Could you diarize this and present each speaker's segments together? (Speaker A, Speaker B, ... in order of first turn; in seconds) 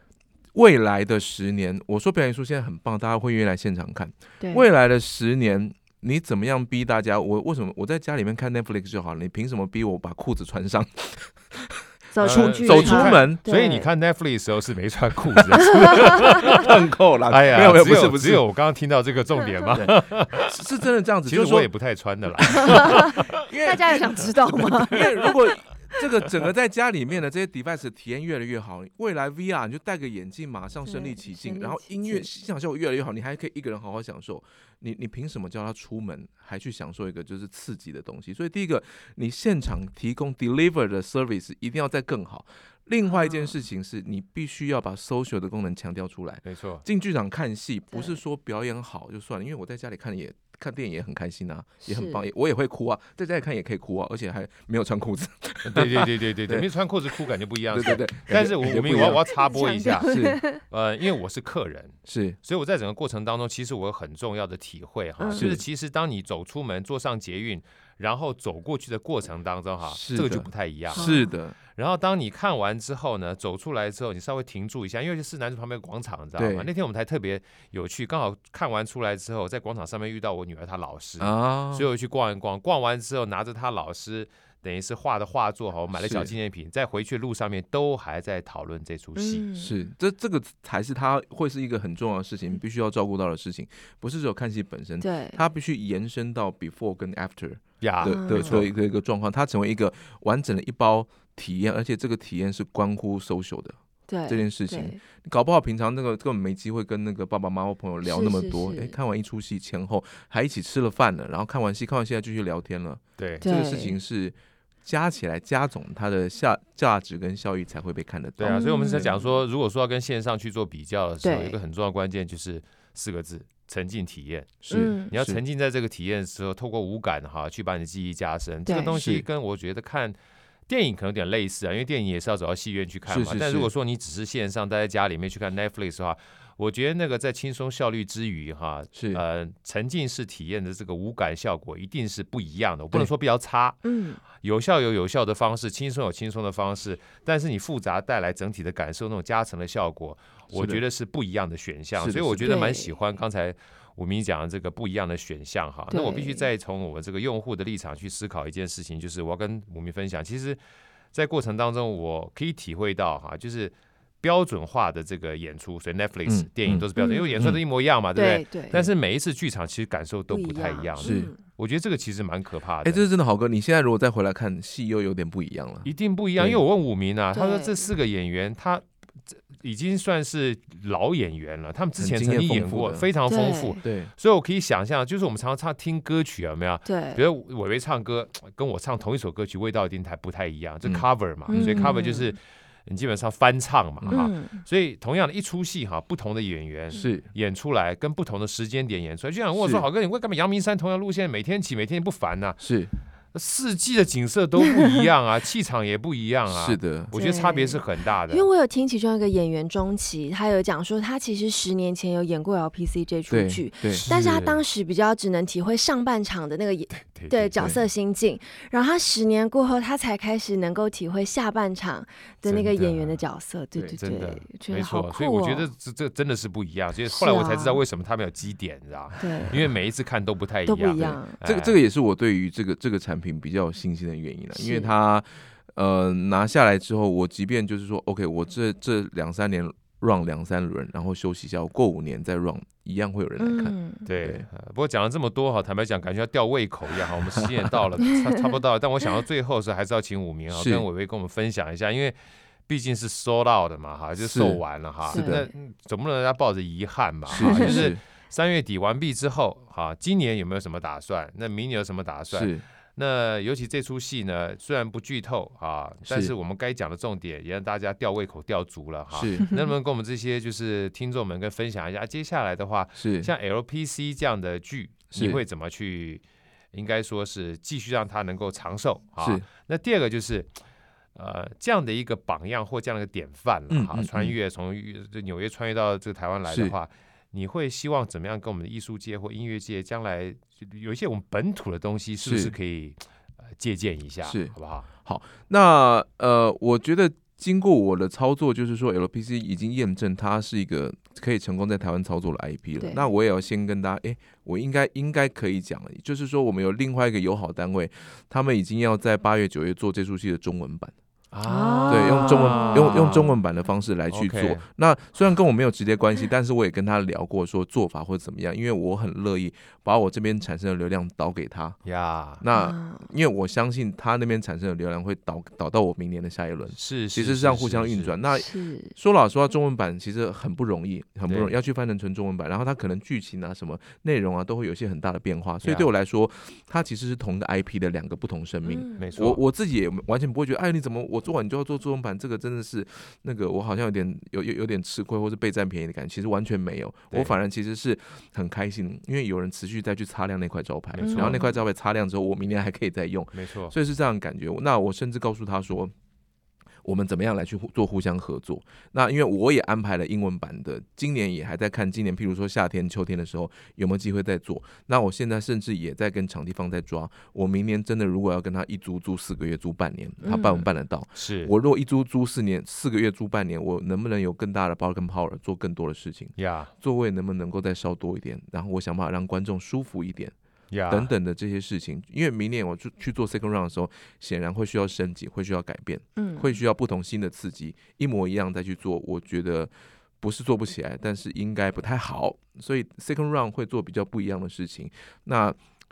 Speaker A: 0.5-13.4, 15.5-18.4, 19.7-21.7, 22.4-22.8, 23.4-56.7, 57.7-59.2, 60.0-60.4, 62.0-62.4, 65.3-65.6, 69.9-71.5, 76.4-76.7, 81.2-81.9, 85.9-86.3, 89.5-119.1, 124.6-125.4, 128.9-129.2, 133.1-133.7, 138.9-139.2, 150.5-150.8, 152.0-152.6, 166.2-166.9, 171.0-171.3, 172.8-176.6, 182.0-183.1, 183.8-184.1, 190.8-191.9, 194.0-194.3, 196.9-197.3, 199.6-199.8, 202.6-202.9, 206.5-207.1, 213.3-214.1, 217.6-217.8, 231.4-244.5, 250.5-250.8, 254.2-255.5, 257.3-258.0, 262.3-262.6, 266.1-266.3, 269.1-269.5, 272.9-273.3, 275.1-275.4, 279.2-279.4, 283.7-284.3, 286.5-286.8, 292.2-292.5, 294.2-310.9, 311.9-321.8, 322.4-355.9, 356.8-380.3, 380.9-395.6
Speaker B: 4.4-4.7, 12.1-13.9, 22.6-25.4, 30.8-32.3, 43.0-43.5, 47.9-48.2, 51.8-52.3, 58.7-60.6, 65.2-65.5, 70.9-71.3, 89.2-89.8, 95.0-95.4, 98.0-98.6, 104.1-105.0, 108.0-109.0, 113.4-114.0, 118.5-119.3, 121.2-121.6, 124.7-125.1, 128.7-128.9, 143.8-144.2, 152.4-152.9, 155.9-156.5, 166.9-167.4, 168.1-168.8, 170.3-171.4, 177.3-177.9, 183.3-183.8, 186.8-187.2, 191.5-192.3, 194.1-194.6, 204.6-205.0, 207.1-225.7, 227.1-227.8, 229.2-229.7, 230.6-231.4, 234.5-234.9, 243.4-244.1, 255.1-255.4, 257.3-257.9, 302.8-303.1, 311.4-313.2, 322.5-323.1, 328.3-328.9, 338.6-339.0, 351.0-351.6, 370.2-370.7, 386.2-386.6
Speaker C: 12.2-16.7, 17.3-20.5, 21.2-23.3, 24.6-24.9, 46.4-46.8, 55.6-71.1, 71.7-89.4, 97.8-98.7, 113.2-113.4, 118.4-130.2, 130.7-143.8, 144.3-160.6, 161.1-173.1, 175.8-178.8, 179.6-202.6, 203.3-208.5, 213.9-214.6, 216.9-217.6, 222.4-223.2, 224.0-231.8, 244.0-280.5, 281.1-293.0, 293.6-294.9, 311.3-313.4, 314.1-314.6, 321.8-322.4, 326.8-328.1, 331.3-331.5, 335.6-335.9, 339.0-339.4, 350.9-351.4, 353.3-353.7, 371.1-371.5, 376.4-376.7, 380.7-381.1